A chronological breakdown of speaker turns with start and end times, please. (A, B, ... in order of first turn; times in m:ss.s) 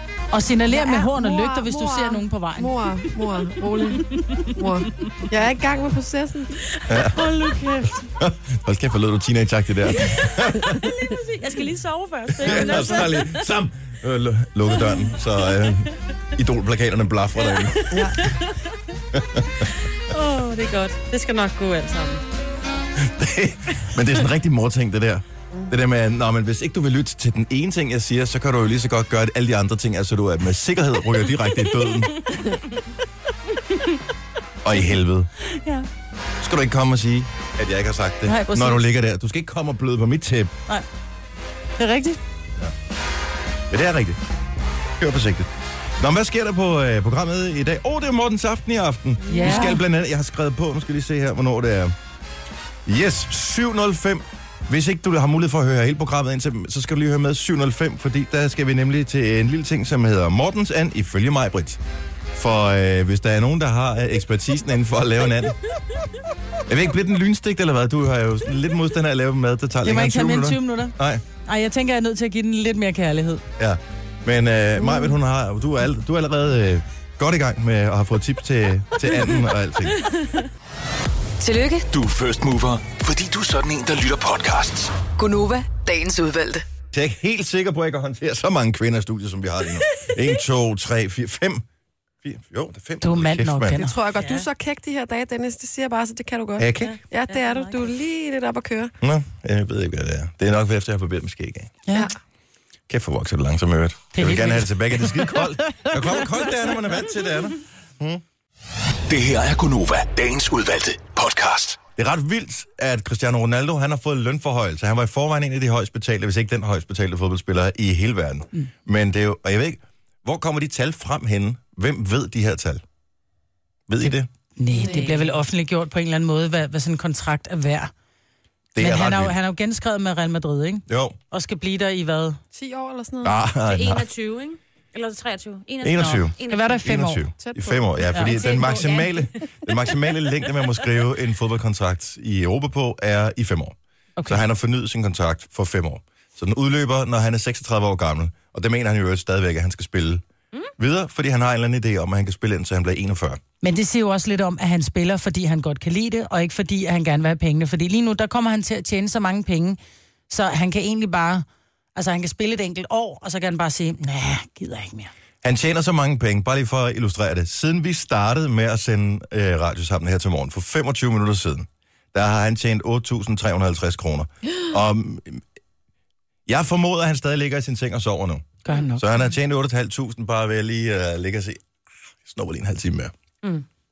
0:00.3-0:03.4 A
0:00.7-0:06.6 B
0:06.9-0:07.2 C
0:07.1-0:08.1 A
0:08.2-0:10.8 C
0:10.6-0:11.7 A
0:11.0-0:13.2 D
0:12.4-0:13.4 A
0:12.4-0:17.9 C
0:17.9-0:18.2 B
0:19.1-0:19.7 C
0:20.0-0:22.2 D
0:23.0-0:32.2 C
0:34.6-0:35.3 C
0:35.4-0:35.9 A
0:36.4-0:40.5 C
0:38.2-0:38.8 A
0:41.8-0:42.2 A
0:43.7-0:44.2 C
0:45.0-0:45.5 C
0:46.0-0:51.9 C
0:49.3-0:49.8 A
0:49.4-0:49.7 B
0:52.8-1:01.8 C
1:02.3-1:05.6 C
1:06.6-1:11.2 C
1:09.8-1:13.4 A
1:13.6-1:20.0 C
1:21.4-1:21.9 E
1:21.9-1:24.9 F
1:25.2-1:26.6 E
1:26.9-1:31.6 C
1:32.2-1:33.8 C
1:33.0-1:34.0 A
1:33.8-1:38.9 B
1:34.2-1:34.4 D
1:36.6-1:37.0 C
1:36.8-1:37.8 D
1:39.0-1:41.7 C
1:42.9-1:48.2 C
1:44.1-1:46.3 A
1:49.1-1:51.8 F
1:52.0-2:02.8 C
2:03.9-2:04.3 C
2:04.6-2:07.9 A
2:04.7-2:05.1 B
2:04.7-2:05.3 D
2:08.7-2:09.4 C
2:08.8-2:12.4 A
2:10.9-2:11.1 C
2:12.5-2:13.4 B
2:13.2-2:14.0 C
2:13.6-2:16.8 D
2:15.8-2:23.8 C
2:16.0-2:17.2 A
2:17.4-2:18.0 B
2:18.1-2:19.9 D
2:24.3-2:30.2 C
2:30.8-2:33.4 C
2:33.6-2:39.8 A
2:40.3-2:41.4 A
2:42.0-2:45.1 A
2:45.4-2:55.4 C
2:56.5-3:01.6 C
2:58.6-2:59.0 A
3:02.2-3:03.1 C